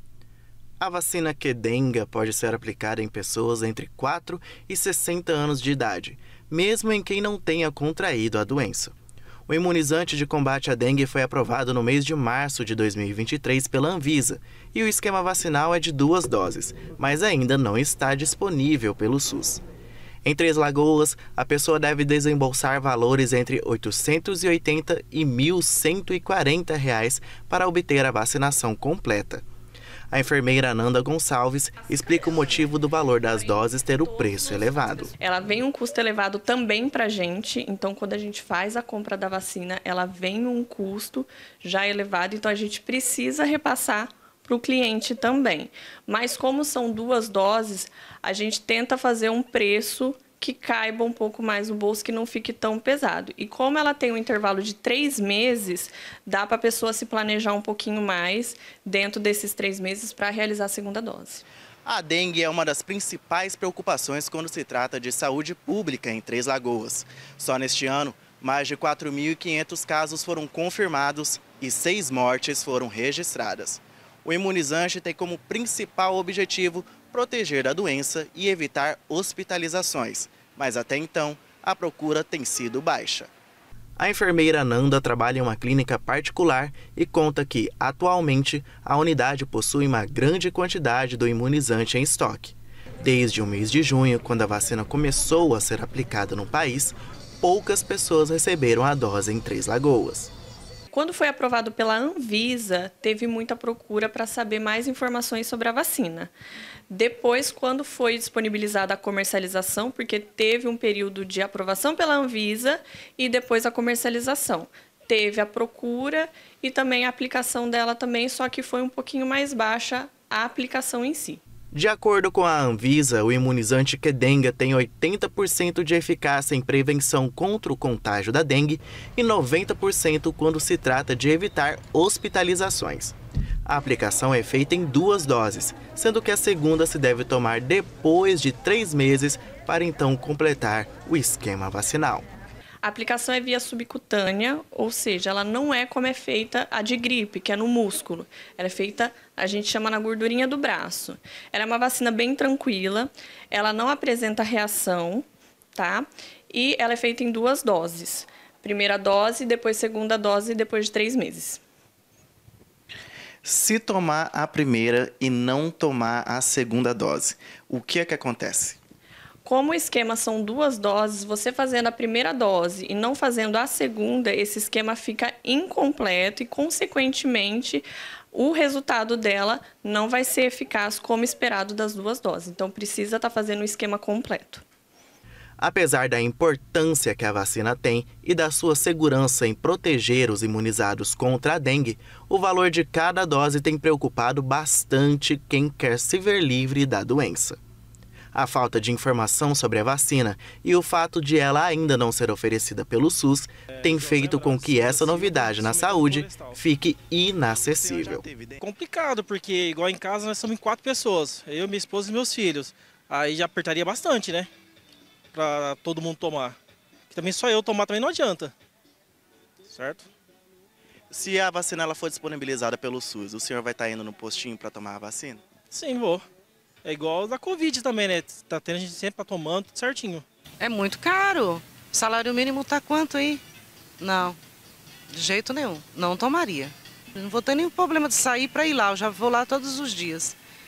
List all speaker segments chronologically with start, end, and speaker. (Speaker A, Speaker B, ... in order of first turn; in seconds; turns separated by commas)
Speaker A: 0.8-8.9, Speaker A: 9.5-19.6, Speaker A: 20.2-29.4, Speaker A: 30.1-35.1, Speaker B: 32.1-61.4, Speaker A: 61.9-83.3, Speaker A: 84.0-100.3, Speaker B: 100.9-106.3, Speaker B: 106.9-121.4, Speaker A: 121.7-133.2, Speaker A: 133.7-142.3, Speaker B: 142.8-161.6, Speaker A: 163.4-168.8, Speaker B: 169.4-184.6, Speaker A: 185.6-197.6, Speaker A: 198.3-208.3, Speaker C: 203.7-206.6, Speaker C: 208.4-214.5, Speaker C: 215.3-216.6, Speaker C: 217.1-218.5, Speaker C: 219.6-220.1, Speaker A: 221.1-225.4, Speaker C: 225.7-226.2, Speaker C: 226.8-230.3, Speaker D: 230.6-233.4, Speaker D: 234.0-234.4, Speaker D: 235.1-240.4